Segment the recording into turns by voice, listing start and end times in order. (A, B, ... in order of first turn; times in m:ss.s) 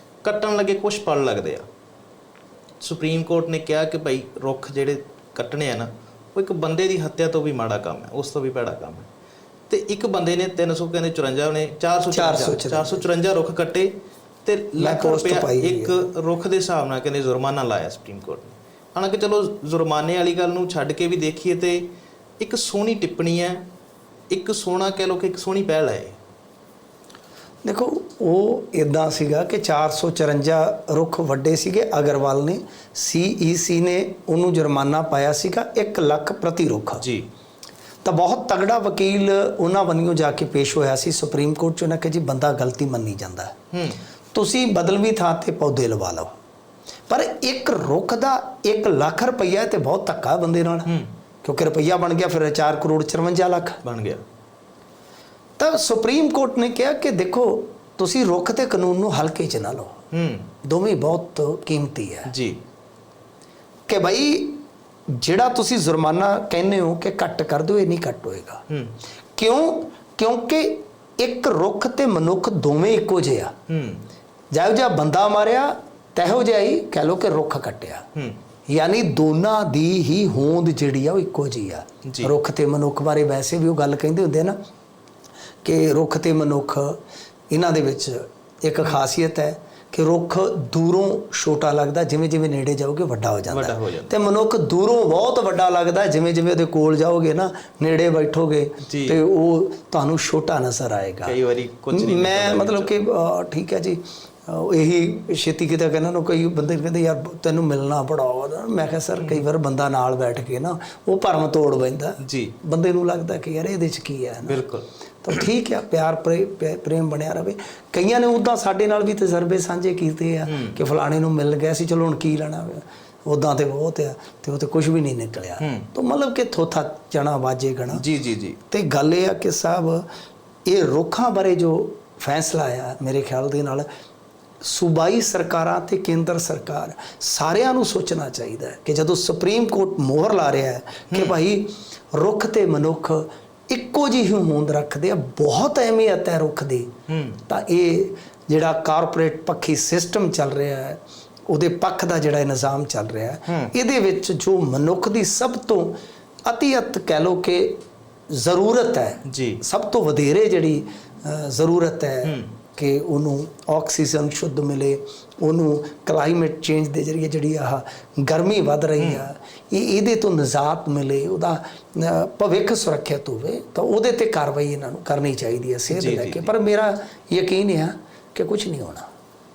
0:00.2-0:01.6 A
0:02.8-0:09.1 A
0:09.7-0:13.9 A
0:12.1-0:13.1 B
0:14.4-0:21.9 A
0:14.8-0:16.0 B
0:22.4-0:23.6 A
0:24.3-0:26.2 A
0:27.6-0:37.0 B
0:37.0-0:37.2 A
0:38.0-0:43.5 B
0:43.7-0:44.0 A
0:44.3-0:46.3 B
0:47.1-0:50.9 B
0:50.9-0:51.1 A
0:51.4-0:53.8 B
0:53.8-0:54.2 A
0:55.6-1:00.0 B
1:00.1-1:00.5 A
1:00.6-1:02.3 B
1:02.3-1:02.6 A
1:03.9-1:08.6 B
1:08.7-1:08.9 A
1:09.4-1:13.5 B
1:13.7-1:14.1 A
1:14.5-1:18.0 B
1:18.7-1:24.6 B
1:22.0-1:22.3 A
1:25.6-1:27.0 B
1:27.5-1:41.4 B
1:33.5-1:34.1 A
1:38.8-1:39.2 A
1:41.2-1:42.9 A
1:41.9-1:54.6 B
1:52.2-1:52.5 A
1:54.5-1:54.9 A
1:55.2-2:08.0 B
2:00.5-2:00.8 A
2:05.6-2:05.9 A
2:07.9-2:08.6 A
2:08.7-2:10.1 B
2:10.6-2:13.9 B
2:14.6-2:26.9 B
2:21.1-2:21.4 A
2:27.1-2:27.4 A
2:27.5-2:59.1 B
2:33.5-2:33.7 A
2:39.2-2:39.6 A
2:42.2-2:42.5 A
2:49.0-2:49.3 A
2:55.9-2:56.5 A